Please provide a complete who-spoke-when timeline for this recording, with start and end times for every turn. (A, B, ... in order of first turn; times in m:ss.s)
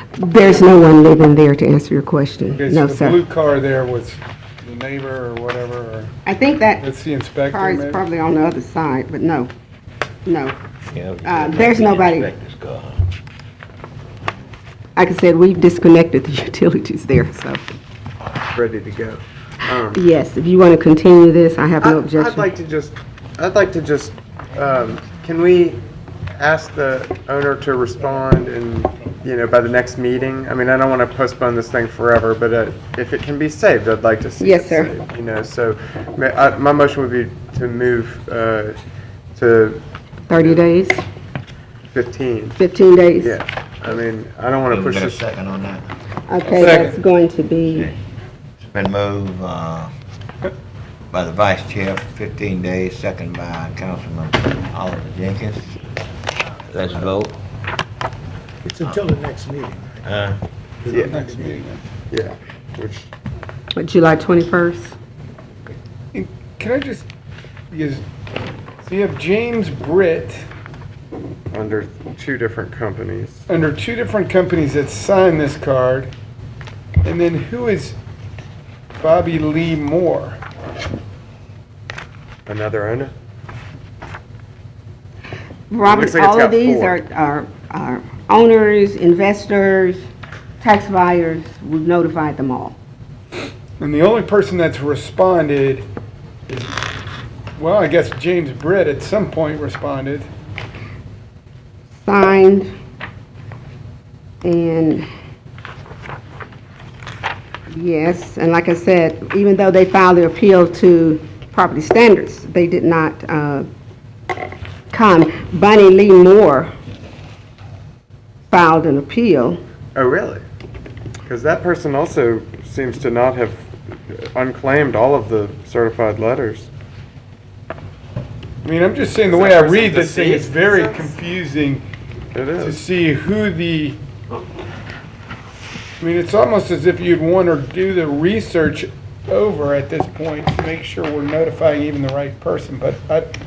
0:00.2-0:03.2 A
0:02.5-0:06.1 B
0:06.2-0:06.9 A
0:06.8-0:08.0 B
0:07.5-0:09.5 A
0:10.2-0:10.6 A
0:10.9-0:13.0 C
0:11.2-0:12.3 A
0:15.0-0:17.6 A
0:18.5-0:20.0 D
0:19.9-0:22.4 A
0:21.8-0:25.8 D
0:26.4-0:38.8 D
0:34.4-0:34.9 A
0:39.3-0:40.6 D
0:40.3-0:41.0 A
0:41.9-0:42.6 D
0:42.6-0:43.4 A
0:43.2-0:45.2 D
0:44.7-0:45.8 C
0:46.3-0:47.9 A
0:46.5-0:46.9 B
0:46.6-0:46.9 D
0:48.6-0:49.9 C
0:51.1-0:55.7 C
0:56.7-0:57.4 C
0:58.6-1:00.0 E
0:58.8-0:59.1 C
1:00.0-1:00.4 C
1:00.8-1:01.5 E
1:00.9-1:01.2 D
1:01.0-1:01.8 B
1:02.1-1:03.1 D
1:03.7-1:05.0 A
1:06.1-1:07.1 B
1:07.7-1:08.0 B
1:08.8-1:10.4 B
1:11.5-1:13.4 D
1:13.5-1:16.1 B
1:17.0-1:18.0 B
1:19.0-1:20.4 B
1:22.5-1:23.1 D
1:25.7-1:30.0 A
1:25.8-1:27.0 D
1:30.6-1:32.8 A
1:33.8-1:35.8 B
1:36.5-1:36.7 B
1:37.6-1:40.3 B
1:42.0-1:42.7 A
1:44.4-1:45.0 A
1:47.7-1:53.6 A
1:54.9-1:56.7 A
1:58.5-1:59.6 A
1:59.9-2:00.4 D
2:01.2-2:06.7 D
2:08.6-2:11.8 B
2:09.3-2:11.1 D
2:12.3-2:12.8 D
2:12.6-2:14.0 B
2:16.0-2:23.3 B